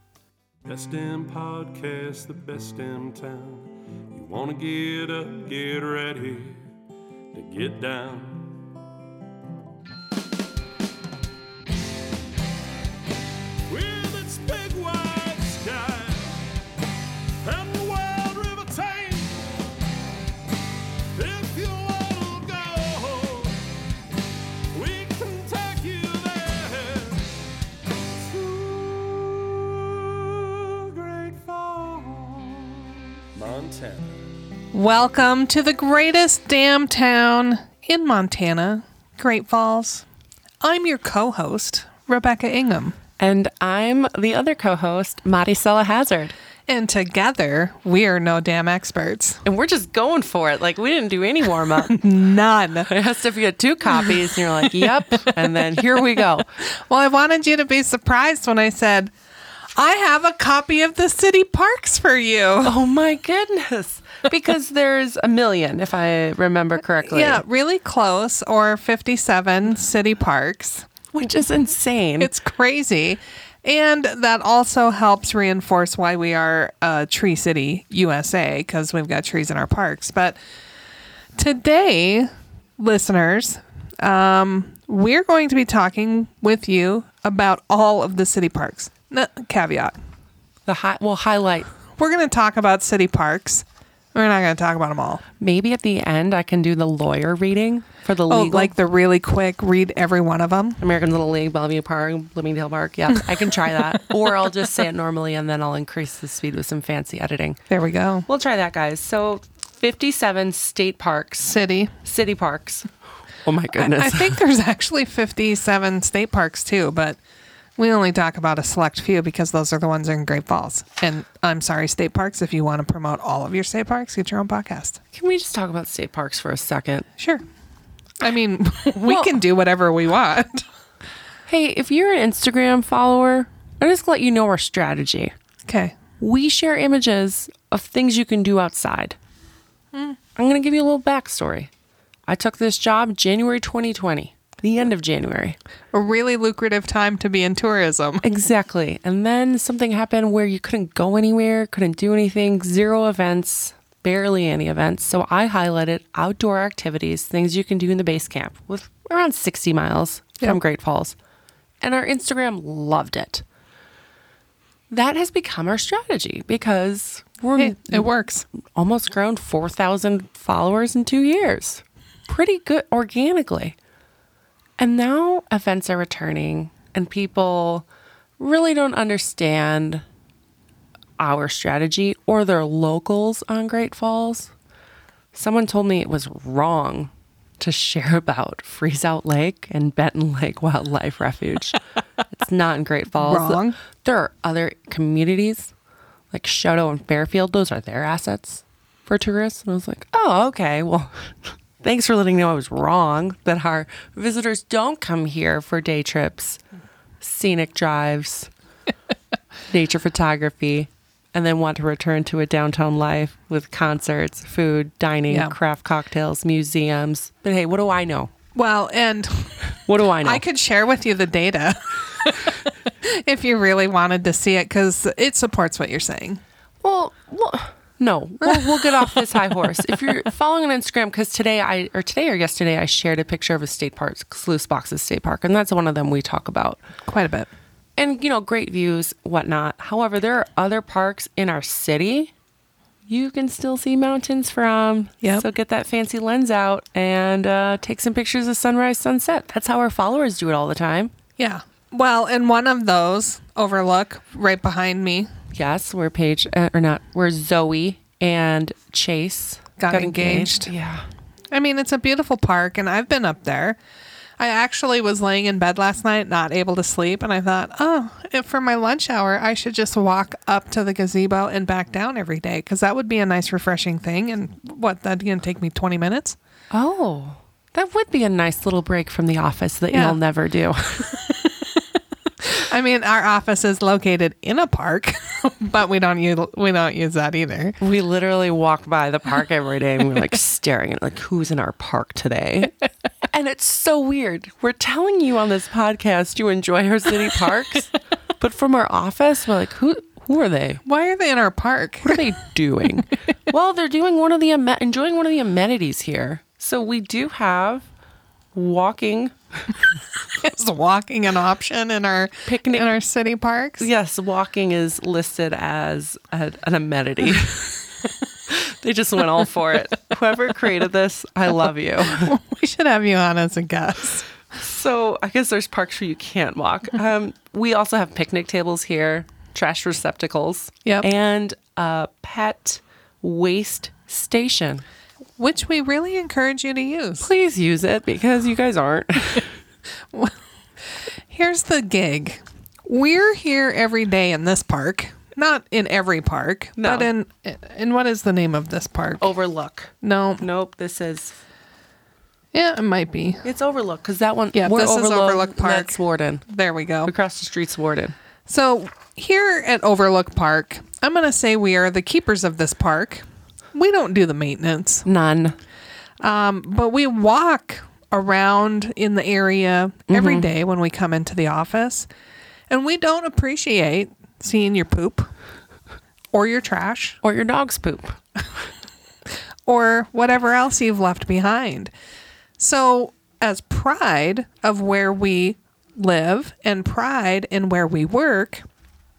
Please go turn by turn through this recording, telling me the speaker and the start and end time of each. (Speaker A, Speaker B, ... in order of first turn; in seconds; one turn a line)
Speaker A: 0.7-6.6
Speaker A: 7.3-8.7
Speaker A: 13.7-16.4
Speaker A: 17.4-19.4
Speaker A: 21.1-23.6
Speaker A: 24.7-27.3
Speaker A: 28.1-34.2
Speaker B: 34.7-40.0
Speaker B: 40.6-43.0
Speaker C: 43.2-46.4
Speaker B: 46.7-49.4
Speaker C: 49.4-52.0
Speaker B: 51.9-52.9
Speaker C: 52.8-56.5
Speaker B: 54.6-55.5
Speaker B: 56.6-59.1
Speaker B: 59.8-62.8
Speaker C: 62.6-67.4
Speaker B: 67.0-70.9
Speaker C: 71.1-72.3
Speaker B: 72.2-80.4
Speaker B: 81.3-90.0
Speaker C: 90.7-91.7
Speaker B: 92.0-95.2
Speaker C: 95.4-98.7
Speaker B: 98.3-100.8
Speaker C: 100.8-107.6
Speaker B: 107.7-108.2
Speaker C: 108.3-112.9
Speaker B: 111.4-111.9
Speaker C: 113.4-114.4
Speaker B: 113.7-117.2
Speaker B: 117.8-125.0
Speaker C: 125.1-127.1
Speaker B: 127.2-127.4
Speaker B: 128.2-130.6
Speaker C: 131.5-135.3
Speaker B: 135.7-136.0
Speaker C: 136.2-139.2
Speaker B: 139.9-140.2
Speaker C: 140.3-141.7
Speaker C: 142.3-145.6
Speaker B: 145.9-148.3
Speaker C: 148.2-161.2
Speaker C: 161.8-163.4
Speaker C: 164.9-168.1
Speaker B: 167.6-168.4
Speaker C: 168.6-173.8
Speaker C: 174.8-177.8
Speaker C: 178.4-180.0
Speaker C: 181.2-184.5
Speaker C: 185.3-191.8
Speaker C: 192.3-195.7
Speaker B: 193.2-193.8
Speaker C: 196.3-206.6
Speaker C: 207.2-208.5
Speaker C: 209.7-218.3
Speaker B: 215.3-215.5
Speaker B: 218.5-219.6
Speaker C: 219.8-220.4
Speaker B: 220.2-226.4
Speaker C: 226.8-236.8
Speaker B: 228.4-229.2
Speaker B: 237.0-237.5
Speaker C: 238.0-242.3
Speaker C: 243.1-251.1
Speaker B: 251.4-255.3
Speaker C: 255.5-261.1
Speaker B: 259.8-260.7
Speaker B: 261.5-263.8
Speaker B: 264.4-276.4
Speaker C: 276.7-281.2
Speaker B: 279.9-280.2
Speaker B: 281.3-281.7
Speaker B: 282.5-287.8
Speaker C: 287.8-292.8
Speaker C: 293.3-300.8
Speaker B: 300.9-302.2
Speaker C: 302.0-307.9
Speaker C: 308.5-309.3
Speaker B: 310.4-313.9
Speaker C: 312.4-312.9
Speaker C: 313.8-317.8
Speaker C: 318.5-322.4
Speaker B: 322.2-324.2
Speaker C: 324.5-334.8
Speaker B: 335.4-337.3
Speaker C: 337.2-339.5
Speaker B: 340.1-340.4
Speaker B: 341.3-349.2
Speaker C: 346.8-347.1
Speaker C: 349.2-351.4
Speaker B: 350.0-350.4
Speaker B: 352.5-353.4
Speaker C: 353.4-356.4
Speaker B: 354.5-357.1
Speaker C: 357.1-358.1
Speaker B: 358.5-365.1
Speaker C: 365.1-365.6
Speaker B: 366.2-372.1
Speaker C: 370.1-370.5
Speaker B: 372.7-375.3
Speaker B: 376.3-377.2
Speaker C: 377.2-378.2
Speaker B: 379.6-381.9
Speaker B: 382.6-388.6